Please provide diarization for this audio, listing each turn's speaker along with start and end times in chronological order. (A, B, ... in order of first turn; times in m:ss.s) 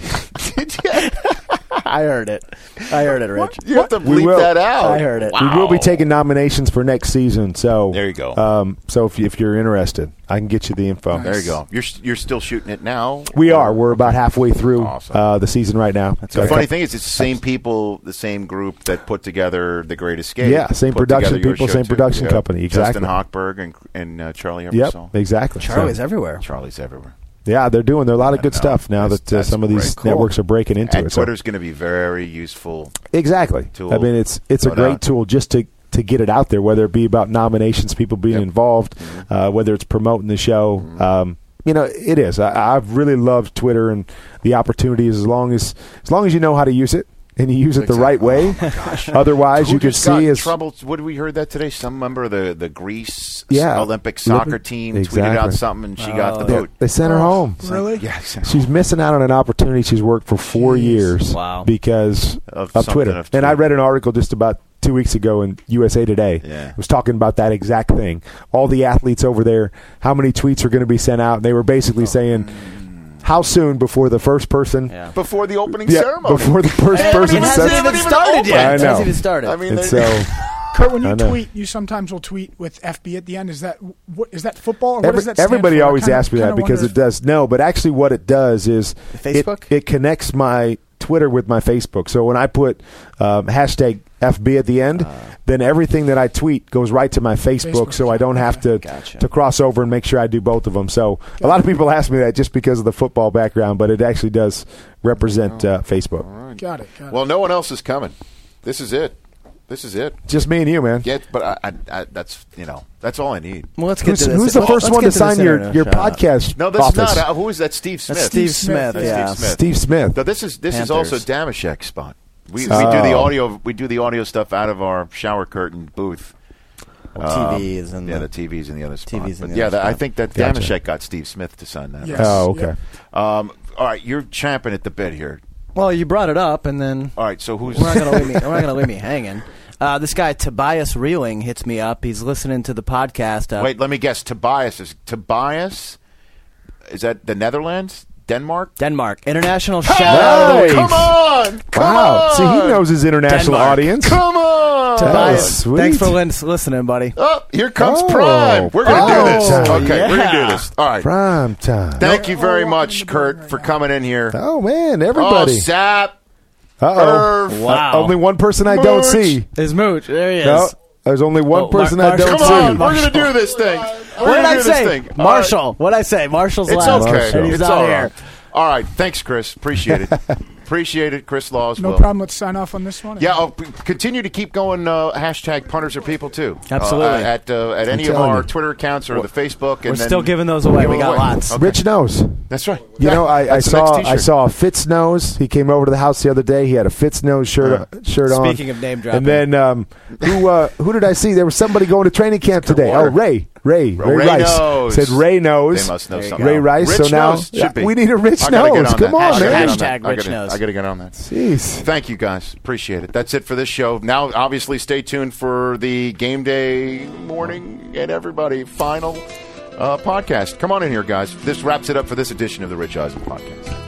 0:00.4-0:01.3 A
0:01.8-0:03.6 B
0:03.0-0:06.0 A
0:04.0-0:04.6 C
0:04.8-0:05.4 B
0:05.4-0:11.6 C
0:07.9-0:08.4 A
0:11.1-0:11.4 D
0:11.2-0:15.2 A
0:13.3-0:17.4 C
0:16.2-0:16.7 B
0:16.3-0:25.1 A
0:20.4-0:23.2 C
0:24.7-0:26.0 C
0:25.6-0:26.4 B
0:26.4-0:27.1 A
0:27.4-0:31.3 C
0:28.2-0:33.0 A
0:33.1-0:50.5 C
0:33.7-0:35.0 A
0:40.8-0:41.1 A
0:47.7-0:56.7 A
0:53.5-0:55.6 C
0:56.0-0:56.7 B
0:56.4-0:57.7 C
0:57.0-0:58.0 D
0:57.7-0:58.7 A
0:58.4-1:12.6 C
1:00.6-1:01.0 D
1:01.2-1:01.7 B
1:02.5-1:03.7 A
1:06.4-1:06.8 A
1:12.1-1:13.1 A
1:13.2-1:14.9 C
1:14.9-1:15.2 B
1:15.1-1:20.3 A
1:15.7-1:20.3 C
1:16.9-1:19.6 B
1:20.7-1:27.0 D
1:21.0-1:21.4 C
1:25.0-1:46.2 C
1:29.2-1:29.7 B
1:37.6-1:38.7 D
1:38.8-1:39.3 B
1:45.2-1:50.2 A
1:46.6-1:47.2 D
1:50.3-1:51.1 C
1:51.0-1:53.7 A
1:53.8-1:56.2 B
1:54.0-1:57.3 C
1:54.5-1:55.0 A
1:56.6-2:06.3 A
1:58.1-1:59.6 B
1:58.2-1:59.4 D
1:59.4-2:00.2 C
2:00.7-2:01.2 B
2:02.6-2:03.4 C
2:07.2-2:12.6 A
2:07.2-2:08.3 B
2:09.1-2:10.0 B
2:10.3-2:10.8 C
2:12.0-2:12.7 D
2:12.1-2:12.7 C
2:13.1-2:15.4 A
2:15.7-2:23.7 B
2:17.2-2:18.7 A
2:23.6-2:26.0 A
2:26.9-2:28.7 A
2:28.8-2:31.0 B
2:29.8-2:32.8 A
2:30.0-2:31.2 C
2:31.7-2:34.2 C
2:33.3-2:34.1 B
2:33.8-2:35.6 A
2:35.0-2:37.2 B
2:35.0-2:36.2 C
2:37.2-2:41.1 A
2:37.8-2:40.0 C
2:38.8-2:40.7 B
2:41.0-2:42.2 C
2:41.9-2:44.4 A
2:42.0-2:43.8 D
2:44.3-2:45.7 C
2:45.1-2:46.2 A
2:46.8-2:49.5 C
2:46.9-2:47.8 A
2:47.5-2:48.2 B
2:48.6-2:49.4 A
2:49.6-2:50.7 B
2:50.4-2:52.9 C
2:51.5-2:53.4 B
2:52.2-2:55.6 A
2:54.1-2:58.1 B
2:56.7-3:02.1 A
2:56.8-2:58.0 C
3:01.8-3:03.4 D
3:03.2-3:11.8 A
3:06.7-3:07.3 B
3:07.9-3:08.5 C
3:09.8-3:11.8 B
3:11.5-3:29.9 C
3:12.5-3:14.3 A
3:18.2-3:19.5 B
3:22.4-3:23.2 A
3:24.0-3:31.2 A
3:26.1-3:26.8 B
3:29.1-3:30.6 B
3:31.2-3:31.9 C
3:31.8-3:43.8 A